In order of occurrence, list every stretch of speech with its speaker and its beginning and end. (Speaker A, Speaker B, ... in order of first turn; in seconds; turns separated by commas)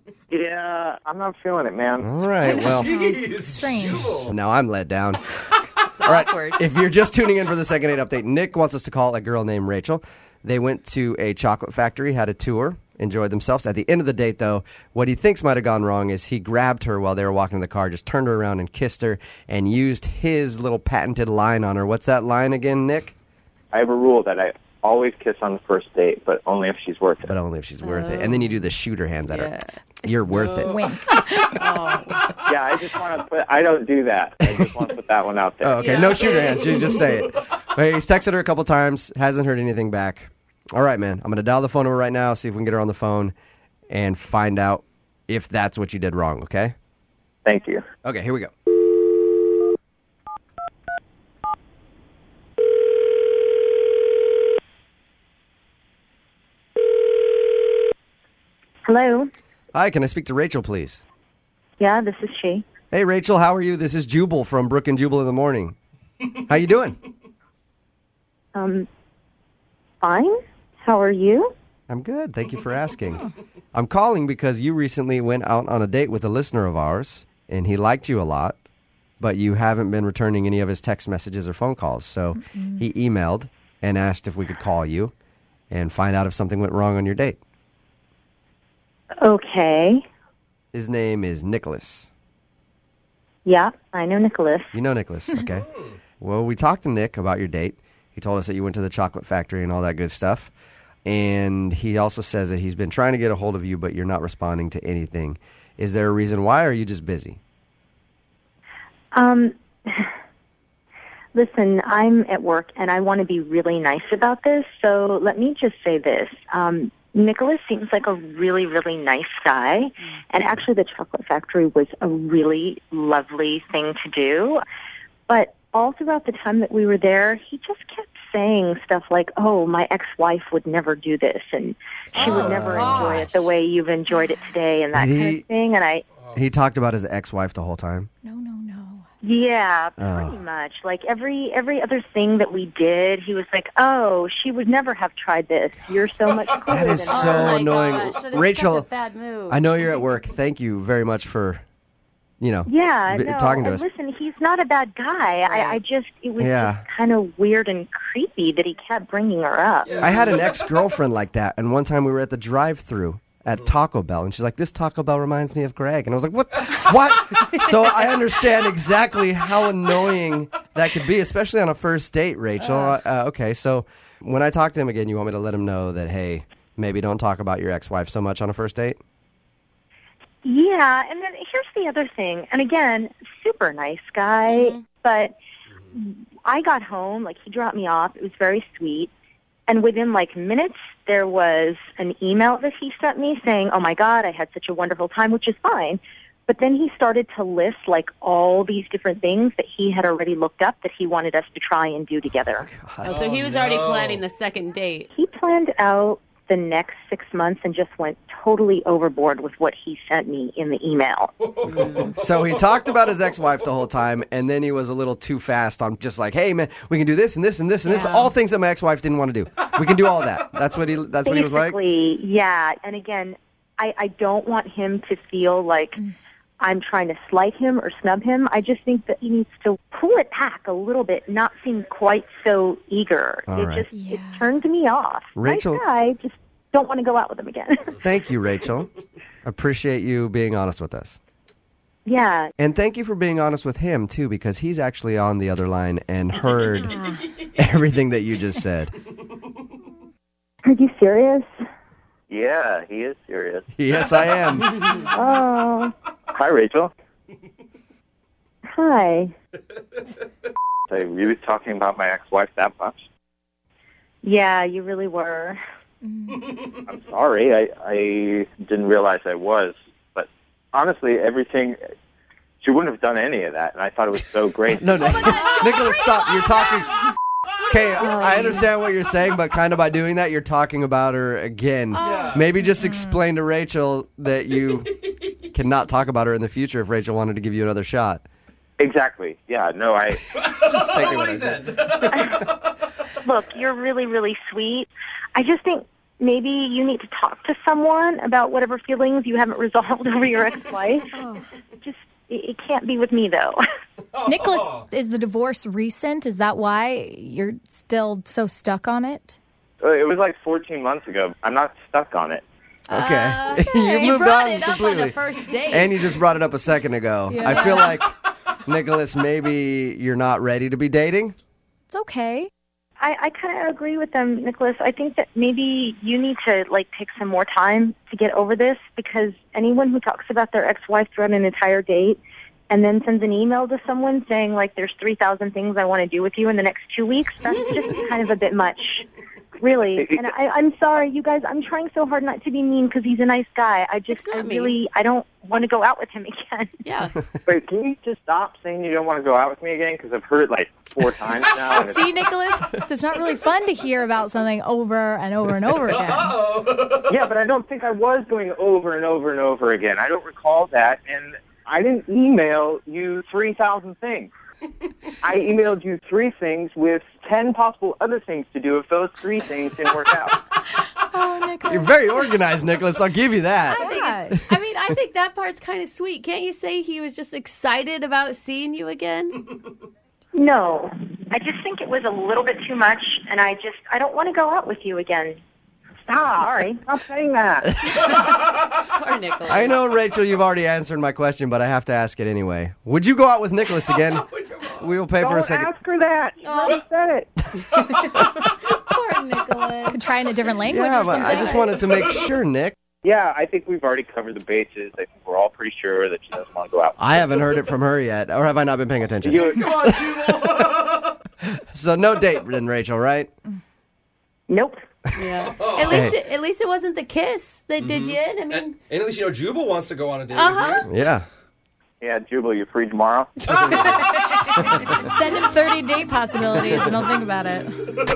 Speaker A: 0.3-2.1, Speaker B: 2.0-3.0, Speaker C: 2.4-4.3, Speaker D: 2.5-4.3, Speaker B: 4.1-5.2, Speaker E: 6.0-6.6, Speaker B: 6.0-23.1, Speaker A: 23.7-27.3, Speaker B: 27.3-29.5, Speaker E: 27.8-28.6, Speaker E: 29.3-29.7, Speaker B: 30.0-30.8, Speaker C: 30.6-31.6, Speaker E: 31.6-32.2, Speaker A: 32.4-36.6, Speaker B: 35.6-43.3, Speaker E: 35.8-37.0, Speaker B: 43.9-46.7, Speaker A: 47.5-47.8, Speaker B: 48.0-48.5, Speaker F: 58.9-59.3, Speaker B: 59.7-61.0, Speaker F: 61.8-62.6, Speaker B: 62.9-65.8, Speaker B: 66.5-67.0, Speaker F: 68.5-68.9, Speaker F: 70.0-71.5, Speaker B: 71.9-78.6, Speaker B: 79.2-85.1, Speaker B: 85.7-87.4, Speaker F: 89.2-90.0, Speaker B: 90.7-92.1, Speaker F: 93.5-94.7, Speaker B: 94.7-95.7, Speaker B: 96.2-100.5, Speaker B: 101.0-107.4, Speaker F: 109.1-110.1, Speaker F: 111.3-124.6, Speaker F: 125.3-136.0, Speaker B: 132.1-133.2, Speaker E: 132.2-133.5, Speaker B: 134.9-135.4, Speaker B: 136.3-138.1, Speaker C: 138.2-139.1, Speaker F: 139.2-147.7, Speaker B: 140.0-140.4, Speaker B: 146.7-148.9, Speaker E: 147.1-149.6, Speaker B: 149.5-151.6, Speaker B: 152.4-153.9, Speaker F: 152.7-160.0, Speaker E: 155.5-155.8, Speaker B: 156.4-156.8, Speaker B: 160.0-179.0, Speaker F: 180.4-185.3, Speaker E: 184.5-184.8, Speaker F: 185.9-189.1, Speaker F: 189.7-202.7, Speaker B: 202.7-203.2, Speaker E: 203.0-205.1, Speaker D: 203.1-204.2, Speaker F: 205.1-211.3, Speaker D: 211.4-212.1, Speaker E: 211.7-212.2, Speaker B: 212.2-221.8, Speaker C: 217.9-218.3, Speaker F: 221.2-226.0, Speaker F: 226.6-237.9, Speaker B: 233.5-233.9, Speaker C: 233.9-234.5, Speaker B: 235.4-235.8, Speaker B: 238.0-238.9, Speaker B: 239.4-241.2, Speaker F: 242.1-242.5, Speaker B: 242.6-248.9, Speaker F: 250.7-251.5, Speaker A: 252.3-253.7, Speaker B: 253.8-254.8, Speaker F: 255.0-255.9, Speaker A: 256.3-256.9, Speaker F: 258.7-259.3, Speaker A: 260.9-263.0, Speaker F: 264.2-265.6, Speaker C: 266.0-266.5, Speaker A: 266.9-271.8, Speaker A: 272.6-275.5, Speaker B: 274.8-277.0, Speaker E: 275.2-275.8, Speaker B: 277.7-285.0, Speaker C: 278.2-278.7, Speaker E: 281.9-282.3, Speaker D: 282.0-282.4, Speaker C: 282.6-283.2, Speaker B: 285.5-288.2, Speaker A: 288.8-290.2, Speaker D: 290.5-292.1, Speaker B: 290.5-292.3, Speaker F: 293.2-301.2, Speaker C: 301.1-301.4, Speaker F: 301.8-303.6, Speaker C: 304.2-309.4, Speaker D: 304.2-304.8, Speaker A: 309.8-312.4, Speaker B: 312.9-315.2, Speaker E: 312.9-316.0, Speaker C: 313.9-314.2, Speaker B: 315.7-318.1, Speaker C: 317.3-318.0, Speaker B: 318.7-321.4, Speaker C: 321.9-322.5, Speaker F: 323.0-332.2, Speaker F: 332.7-339.1, Speaker F: 339.6-346.7, Speaker E: 344.1-344.8, Speaker E: 346.8-347.1, Speaker A: 347.5-352.1, Speaker C: 351.6-356.5, Speaker D: 355.9-357.1, Speaker A: 357.1-364.3, Speaker A: 365.2-370.4, Speaker C: 370.9-372.2, Speaker B: 371.6-373.9, Speaker E: 373.7-379.5, Speaker C: 373.8-374.4, Speaker F: 380.3-385.4, Speaker F: 386.1-386.8, Speaker A: 386.8-387.8, Speaker E: 388.9-389.8, Speaker B: 389.5-395.7, Speaker A: 395.2-397.3, Speaker E: 396.4-396.8, Speaker E: 398.7-400.0, Speaker C: 399.9-401.5, Speaker B: 400.7-402.8, Speaker E: 401.0-401.7, Speaker A: 403.0-407.1, Speaker B: 407.0-410.9, Speaker A: 409.2-409.7, Speaker D: 409.4-411.0, Speaker B: 411.4-413.3, Speaker F: 414.5-414.8, Speaker E: 415.2-418.8, Speaker D: 415.5-416.1, Speaker B: 415.9-416.2, Speaker D: 417.8-420.9, Speaker E: 420.3-420.9, Speaker B: 420.9-421.2, Speaker A: 422.0-423.4, Speaker C: 423.6-428.0